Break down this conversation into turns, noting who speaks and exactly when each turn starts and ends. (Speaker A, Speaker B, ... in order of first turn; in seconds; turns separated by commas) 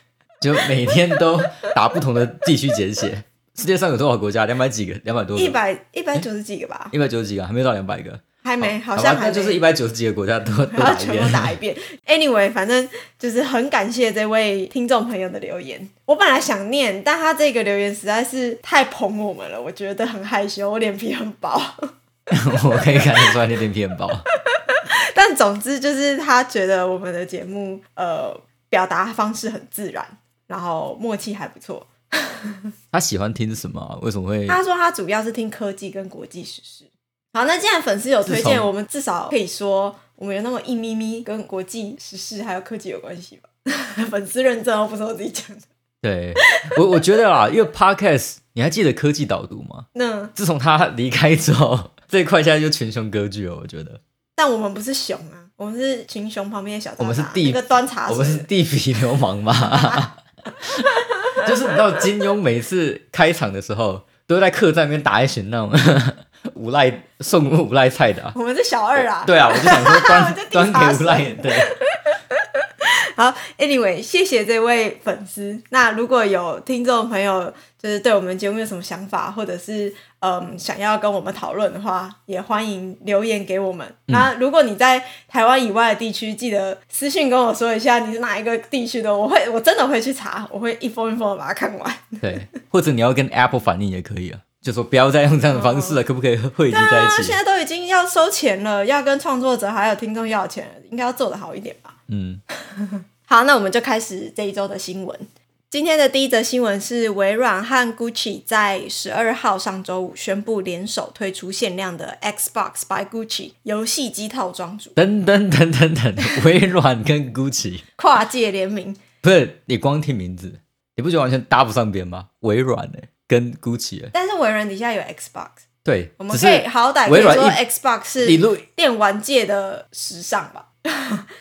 Speaker A: 0.4-5.6, Speaker B: 5.3-6.9, Speaker A: 6.9-11.5, Speaker B: 8.4-9.7, Speaker B: 10.7-21.9, Speaker A: 22.3-24.3, Speaker B: 22.6-23.4, Speaker B: 24.5-32.7, Speaker A: 32.9-34.6, Speaker B: 34.5-45.7, Speaker A: 38.2-38.7, Speaker A: 46.0-54.0, Speaker B: 46.4-47.0, Speaker B: 49.9-50.3, Speaker B: 54.4-58.5, Speaker A: 57.0-68.3, Speaker B: 61.0-61.7, Speaker B: 68.3-92.5, Speaker A: 69.0-71.7, Speaker A: 92.2-97.4, Speaker B: 95.5-96.0, Speaker B: 96.7-102.0, Speaker A: 102.1-102.4, Speaker B: 102.7-115.0, Speaker A: 115.0-117.8, Speaker B: 118.0-119.0, Speaker A: 119.2-124.1, Speaker B: 124.1-125.6, Speaker A: 125.8-127.6, Speaker B: 126.2-131.3, Speaker A: 128.2-128.6